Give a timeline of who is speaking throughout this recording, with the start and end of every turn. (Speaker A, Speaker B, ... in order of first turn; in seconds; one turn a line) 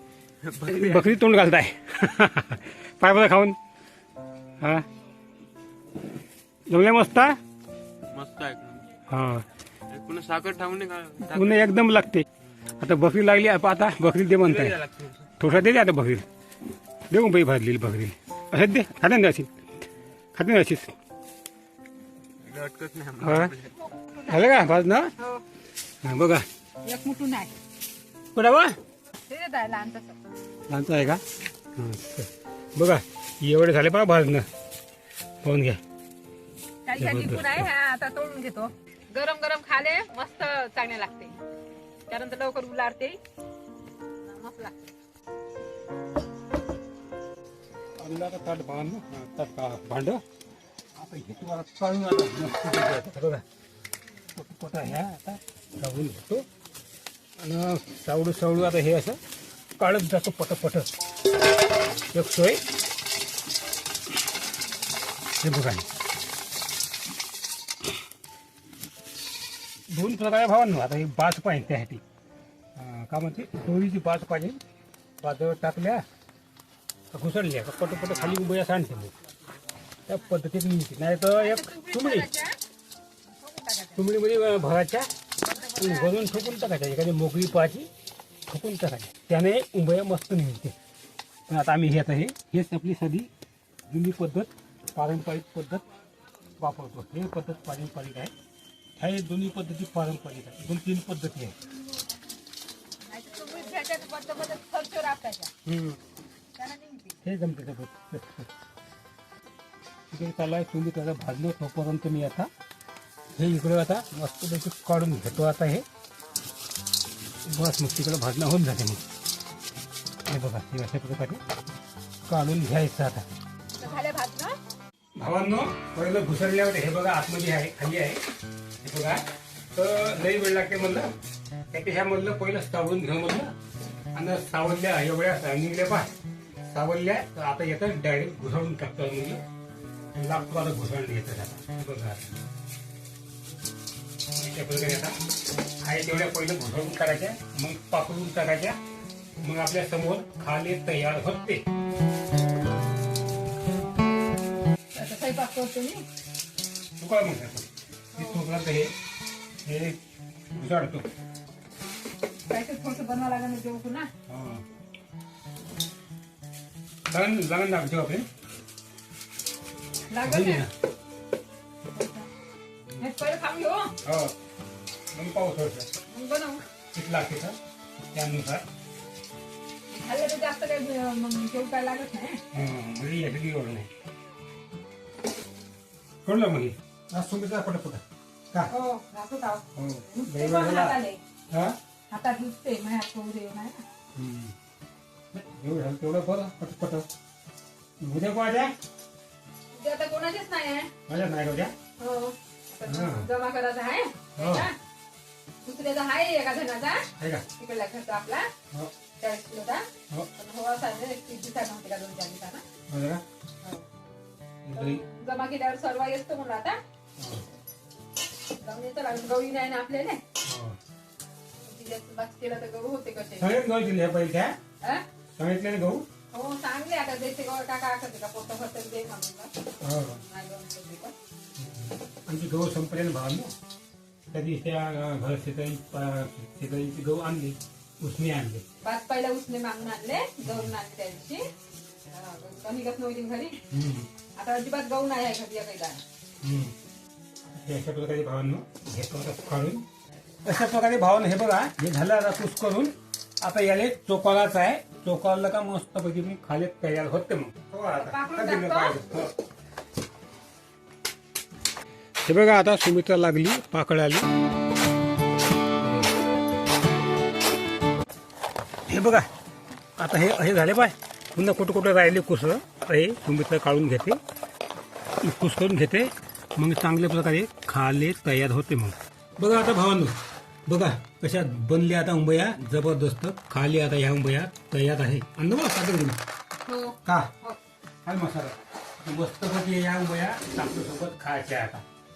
Speaker A: 0.4-1.1
Speaker B: 0.6-3.6
Speaker B: 4.6-4.9
Speaker B: 6.7-7.4
Speaker A: 8.1-8.9
Speaker B: 9.1-9.5
Speaker A: 9.9-11.8
Speaker B: 11.2-14.8
Speaker A: 14.3-15.3
Speaker B: 15.4-16.2
Speaker B: 17.1-19.5
Speaker B: 20.4-20.9
Speaker A: 22.4-23.8
Speaker B: 23.2-23.6
Speaker C: 23.7-25.4
Speaker B: 24.3-25.1
Speaker B: 26.0-26.4
Speaker C: 26.9-27.6
Speaker B: 28.4-28.8
Speaker C: 29.3-30.2
Speaker B: 30.7-31.2
Speaker B: 31.8-34.5
Speaker B: 35.4-35.8
Speaker C: 36.9-41.4
Speaker B: 37.0-37.7
Speaker C: 42.1-43.2
Speaker C: 44.2-44.8
Speaker B: 48.0-50.2
Speaker B: 51.0-53.4
Speaker B: 54.3-56.5
Speaker B: 57.4-59.2
Speaker B: 59.8-60.9
Speaker B: 62.1-62.6
Speaker B: 65.4-65.9
Speaker B: 69.9-72.0
Speaker B: 72.8-74.6
Speaker B: 75.2-76.0
Speaker B: 77.1-79.1
Speaker B: 80.1-82.3
Speaker C: 81.2-82.6
Speaker C: 83.3-84.0
Speaker B: 83.9-85.1
Speaker C: 85.4-86.2
Speaker B: 85.8-87.9
Speaker B: 88.5-90.8
Speaker B: 91.5-93.3
Speaker B: 93.9-95.9
Speaker B: 96.6-98.3
Speaker B: 99.0-101.6
Speaker C: 103.1-105.5
Speaker B: 105.7-106.0
Speaker C: 106.6-107.2
Speaker B: 107.2-108.5
Speaker B: 110.1-112.5
Speaker B: 113.4-115.8
Speaker B: 117.5-119.0
Speaker B: 120.3-121.4
Speaker B: 122.3-123.2
Speaker C: 123.8-124.6
Speaker B: 125.2-128.2
Speaker B: 128.8-131.1
Speaker B: 131.7-133.5
Speaker B: 134.1-136.1
Speaker B: 136.7-139.4
Speaker B: 140.1-142.4
Speaker B: 144.3-145.2
Speaker B: 145.8-148.8
Speaker B: 149.4-151.7
Speaker C: 154.9-156.1
Speaker B: 157.0-158.9
Speaker C: 158.1-158.4
Speaker B: 159.6-160.0
Speaker B: 160.5-161.1
Speaker C: 162.5-164.1
Speaker B: 164.3-164.6
Speaker B: 167.1-168.3
Speaker C: 170.1-170.7
Speaker B: 170.2-170.7
Speaker C: 171.9-172.3
Speaker C: 173.0-174.0
Speaker B: 174.0-174.3
Speaker B: 175.1-175.9
Speaker C: 176.1-176.6
Speaker B: 176.9-177.6
Speaker B: 178.1-178.7
Speaker C: 179.9-182.4
Speaker B: 182.5-183.9
Speaker B: 186.2-188.7
Speaker C: 188.7-191.2
Speaker B: 189.8-191.0
Speaker B: 191.5-191.8
Speaker C: 192.1-193.8
Speaker B: 194.1-194.5
Speaker B: 195.3-197.1
Speaker B: 198.0-198.8
Speaker C: 199.7-200.9
Speaker B: 201.1-201.7
Speaker C: 202.0-204.8
Speaker B: 202.9-203.3
Speaker B: 204.4-204.7
Speaker C: 205.6-208.5
Speaker B: 207.2-207.4
Speaker C: 209.2-212.6
Speaker B: 212.9-213.2
Speaker C: 213.6-213.9
Speaker B: 214.6-215.0
Speaker C: 214.8-216.8
Speaker B: 217.2-217.4
Speaker C: 218.6-220.2
Speaker B: 220.4-220.8
Speaker C: 221.6-223.6
Speaker B: 223.4-224.6
Speaker B: 225.4-226.1
Speaker C: 226.3-229.5
Speaker B: 229.8-230.2
Speaker C: 230.2-231.1
Speaker B: 231.6-233.5
Speaker B: 234.3-238.6
Speaker C: 238.8-241.5
Speaker B: 240.4-240.7
Speaker C: 242.1-243.6
Speaker B: 243.7-244.1
Speaker C: 244.4-246.0
Speaker B: 246.4-246.8
Speaker B: 247.5-249.9
Speaker B: 250.4-259.3
Speaker C: 257.9-259.0
Speaker B: 262.2-264.3
Speaker B: 268.9-269.3
Speaker B: 270.0-274.2
Speaker B: 275.2-286.2
Speaker C: 286.6-287.6
Speaker B: 287.0-287.3
Speaker B: 288.0-291.8